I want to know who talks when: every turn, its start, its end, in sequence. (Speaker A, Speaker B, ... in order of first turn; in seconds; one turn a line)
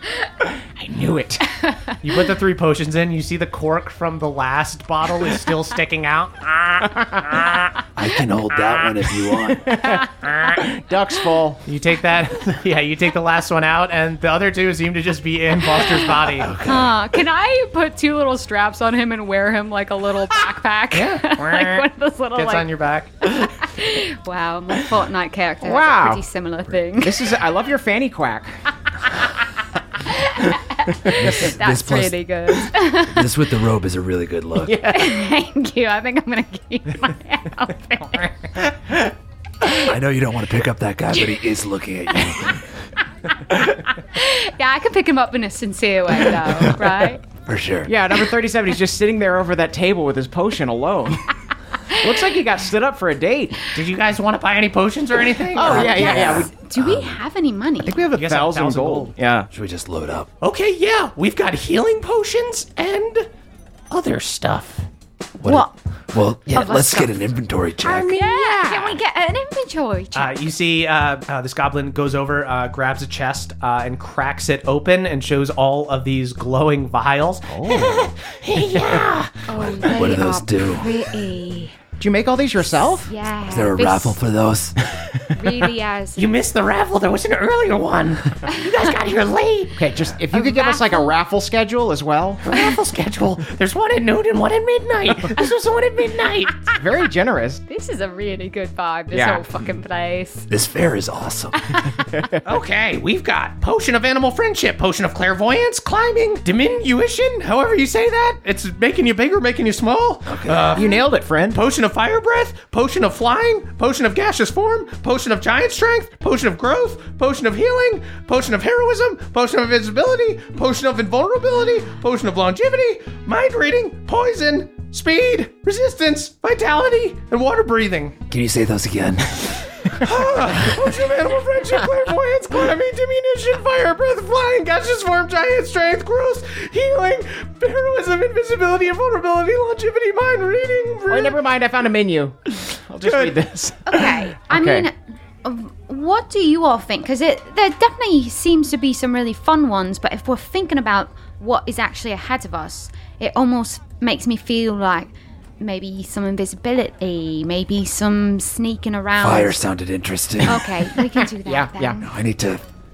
Speaker A: 0.8-1.5
Speaker B: 1.6-1.9
Speaker C: 2.0-7.5
Speaker D: 8.0-9.8
Speaker A: 9.4-11.6
Speaker C: 11.7-16.6
Speaker D: 16.3-17.0
Speaker B: 16.5-22.7
Speaker C: 20.9-21.8
Speaker C: 22.4-23.4
Speaker B: 23.2-27.3
Speaker A: 25.6-26.2
Speaker A: 27.0-28.6
Speaker B: 30.1-33.3
Speaker D: 31.1-32.2
Speaker D: 33.0-34.9
Speaker A: 34.6-35.2
Speaker B: 34.9-38.5
Speaker D: 39.7-42.7
Speaker B: 44.0-47.2
Speaker D: 46.6-48.0
Speaker A: 47.9-51.3
Speaker A: 51.9-53.7
Speaker C: 53.7-56.0
Speaker A: 55.5-56.5
Speaker B: 55.6-58.0
Speaker D: 55.6-57.2
Speaker A: 57.9-59.5
Speaker C: 58.1-59.1
Speaker D: 59.5-60.3
Speaker C: 60.4-63.3
Speaker C: 63.9-64.9
Speaker B: 65.4-65.7
Speaker D: 65.4-68.2
Speaker B: 66.5-67.2
Speaker A: 67.8-69.0
Speaker B: 67.9-70.5
Speaker C: 70.2-79.5
Speaker A: 77.5-78.1
Speaker B: 79.5-81.8
Speaker D: 79.5-80.9
Speaker A: 82.0-83.1
Speaker B: 83.0-84.2
Speaker D: 83.5-84.8
Speaker B: 85.3-86.3
Speaker C: 86.2-89.8
Speaker A: 89.8-92.5
Speaker B: 90.3-91.2
Speaker C: 92.5-96.7
Speaker A: 96.7-97.6
Speaker B: 97.7-100.5
Speaker A: 99.1-99.4
Speaker D: 100.5-101.8
Speaker C: 102.4-110.9
Speaker D: 110.3-110.8
Speaker A: 110.8-111.6
Speaker C: 111.5-128.2
Speaker D: 128.3-129.8
Speaker C: 129.9-141.4
Speaker A: 141.1-144.9
Speaker C: 143.0-143.4
Speaker B: 143.9-159.6
Speaker D: 159.2-160.7
Speaker B: 160.4-162.1
Speaker A: 161.4-162.0
Speaker D: 162.0-162.6